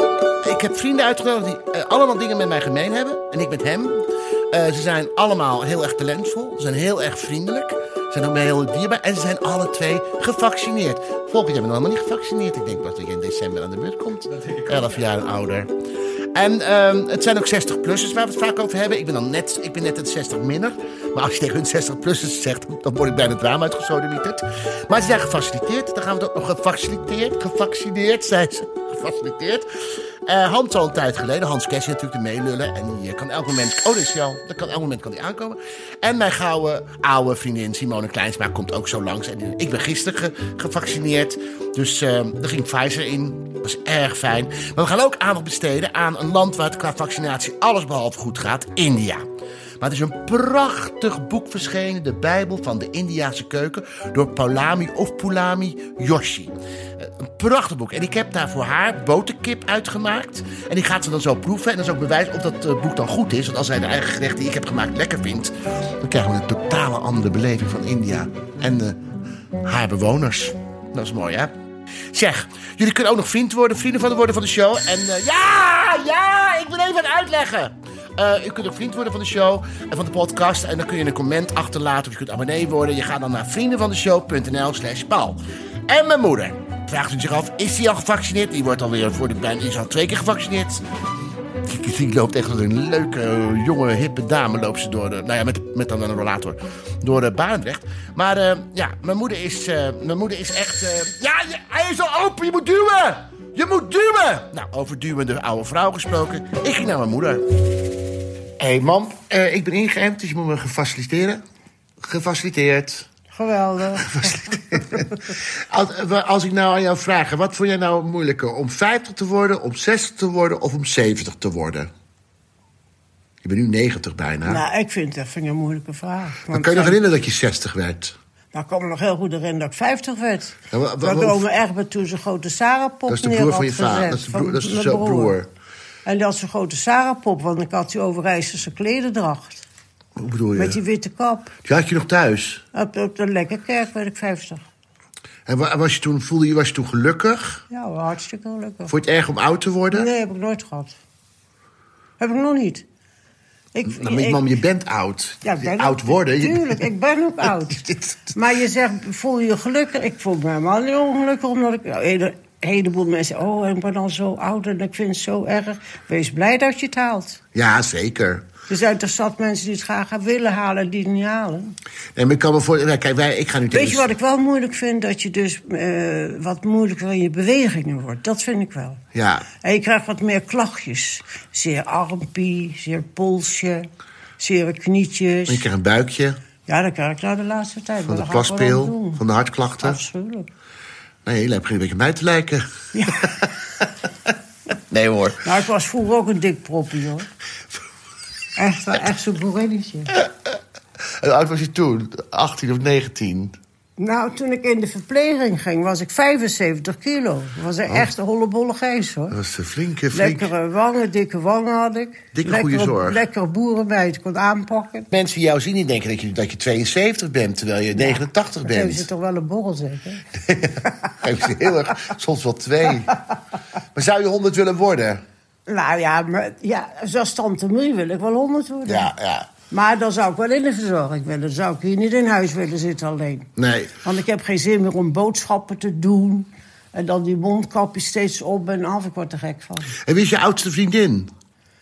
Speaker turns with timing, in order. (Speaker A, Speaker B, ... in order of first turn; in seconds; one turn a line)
Speaker A: 0.4-15.7
Speaker A: 16.3-29.7
Speaker A: 30.2-49.2
Speaker A: 49.8-69.0
Speaker A: 69.6-71.5
Speaker A: 72.1-90.8
Speaker A: 91.6-107.4
Speaker A: 108.6-111.4
Speaker A: 112.0-113.1
Speaker B: 113.3-115.0
Speaker A: 114.0-121.9
Speaker A: 123.4-124.6
Speaker B: 124.4-127.0
Speaker A: 126.5-128.1
Speaker B: 128.5-135.4
Speaker A: 130.7-131.4
Speaker A: 133.1-135.5
Speaker B: 136.0-139.6
Speaker A: 140.2-140.8
Speaker B: 140.5-141.5
Speaker A: 141.6-142.6
Speaker B: 142.7-144.6
Speaker A: 145.5-147.6
Speaker B: 147.7-148.9
Speaker A: 148.9-150.1
Speaker B: 149.9-150.9
Speaker B: 152.2-152.8
Speaker B: 153.7-154.4
Speaker A: 153.8-156.8
Speaker B: 155.4-167.4
Speaker A: 157.7-158.3
Speaker A: 167.5-168.5
Speaker B: 168.7-171.8
Speaker A: 172.2-174.1
Speaker B: 173.7-179.0
Speaker A: 179.1-179.5
Speaker B: 179.5-183.9
Speaker B: 184.4-185.7
Speaker A: 185.5-186.4
Speaker B: 186.7-189.2
Speaker A: 188.0-190.0
Speaker B: 189.8-190.5
Speaker A: 191.2-193.8
Speaker B: 192.9-193.4
Speaker A: 194.9-195.5
Speaker B: 195.4-197.3
Speaker B: 198.6-200.1
Speaker A: 201.2-203.6
Speaker B: 204.0-209.3
Speaker A: 209.3-210.5
Speaker B: 210.1-215.1
Speaker A: 212.3-213.2
Speaker A: 215.1-219.1
Speaker B: 217.9-220.3
Speaker A: 220.4-223.2
Speaker A: 223.9-225.2
Speaker B: 225.7-229.1
Speaker A: 228.8-229.5
Speaker B: 229.7-233.5
Speaker A: 233.6-234.0
Speaker B: 234.0-239.9
Speaker A: 240.0-241.3